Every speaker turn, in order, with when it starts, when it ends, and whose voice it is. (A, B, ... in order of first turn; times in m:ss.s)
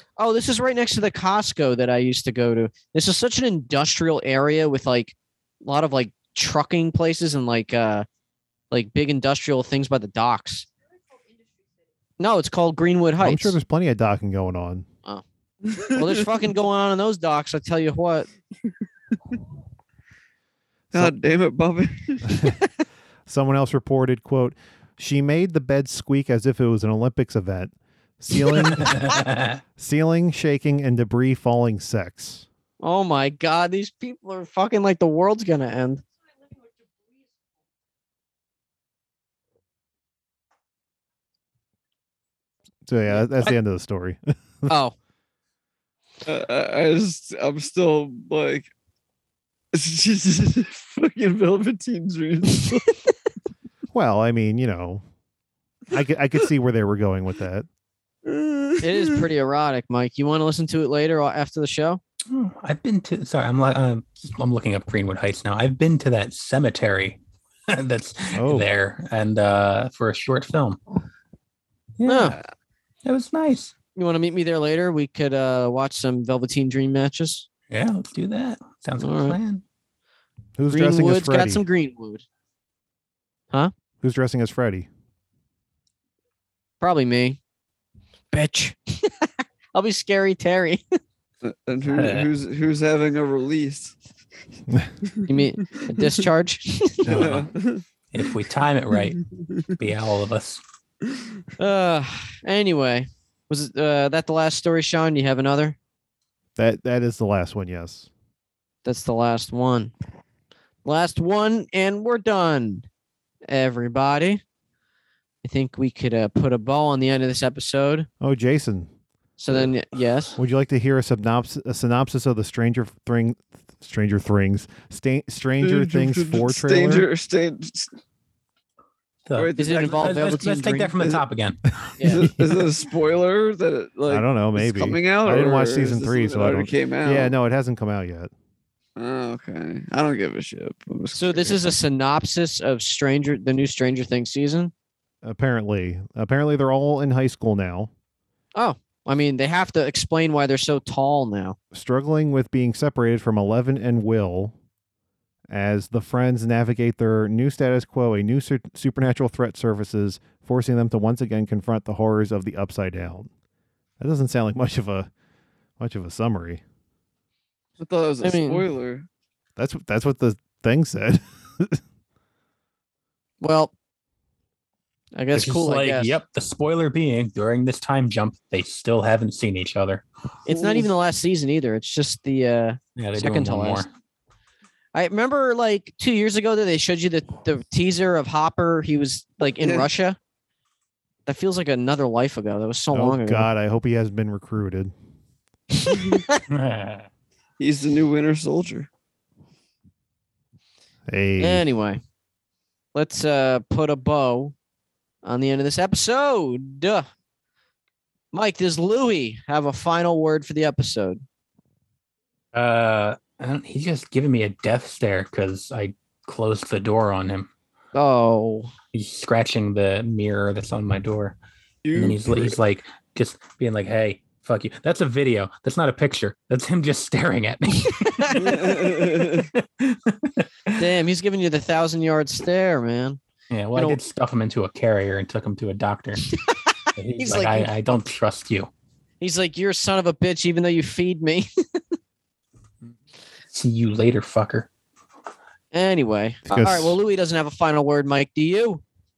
0:00.2-0:08.0 A
0:08.7-0:10.7 A
0:12.2-0:13.6 A
0:13.2-0:14.8 B
0:15.7-0:16.1 C
0:15.9-0:18.3 A
0:20.9-0:22.5 C
0:23.2-0:29.2 B
0:28.7-0:29.6 D
0:29.8-0:32.4 B
0:32.8-0:36.0 A
0:42.8-0:44.7 B
0:44.7-0:44.9 A
0:46.2-0:48.7 C
0:49.7-0:52.8 C
0:53.9-0:55.0 B
0:55.9-0:57.6 B
0:58.2-0:59.2 C
0:58.8-1:02.0 A
1:02.3-1:10.8 D
1:08.3-1:08.7 B
1:12.0-1:12.4 D
1:12.0-1:12.4 A
1:13.0-1:13.7 D
1:14.0-1:17.5 A
1:17.7-1:19.6 D
1:19.0-1:19.4 A
1:20.6-1:21.6 B
1:20.7-1:22.2 A
1:24.0-1:24.9 B
1:26.8-1:27.4 A
1:28.3-1:30.8 A
1:31.4-1:34.0 C
1:31.8-1:32.3 D
1:35.3-1:37.3 A
1:37.0-1:37.5 D
1:37.0-1:37.8 C
1:38.1-1:40.6 D
1:41.6-1:45.8 A
1:46.6-1:48.1 B
1:48.8-1:49.9 A
1:50.8-1:52.8 A
1:53.5-1:54.4 A
1:55.4-1:58.1 A
1:58.2-1:58.9 B
1:59.4-2:00.4 A
2:00.4-2:07.1 B
2:05.6-2:07.9 C
2:09.3-2:11.8 D
2:09.3-2:10.3 C
2:09.6-2:11.2 A
2:12.0-2:12.3 A
2:12.0-2:17.3 C
2:14.1-2:18.3 B
2:19.0-2:21.8 C
2:21.1-2:24.7 A
2:25.2-2:27.9 B
2:28.6-2:31.6 A
2:31.7-2:34.5 B
2:35.5-2:43.3 B
2:44.0-2:45.1 B
2:45.8-2:46.6 B
2:47.8-2:49.1 C
2:48.2-2:48.6 A
2:49.6-2:51.8 B
2:53.4-2:53.7 A
2:55.1-2:56.1 A
2:55.3-3:00.0 D
3:00.4-3:03.8 A
3:00.5-3:00.8 C
3:03.0-3:03.9 D
3:04.9-3:10.2 A
3:09.6-3:09.9 C
3:11.2-3:13.5 A
3:12.9-3:14.9 B
3:15.7-3:16.4 A
3:16.5-3:17.1 D
3:17.6-3:18.9 C
3:21.1-3:21.7 B
3:21.4-3:22.0 A
3:22.9-3:24.5 A
3:25.2-3:27.0 A
3:28.3-3:31.2 A
3:32.5-3:37.5 D
3:37.9-3:38.7 A
3:38.9-3:41.4 D
3:41.8-3:42.6 C
3:41.9-3:50.8 D
3:48.0-3:48.4 A
3:48.4-3:49.5 C
3:50.8-3:53.2 A
3:53.5-3:56.3 D
3:56.4-3:57.7 A
3:57.0-3:58.7 D
3:59.2-4:01.5 A
4:03.5-4:04.7 D
4:05.7-4:08.8 A
4:06.5-4:07.0 B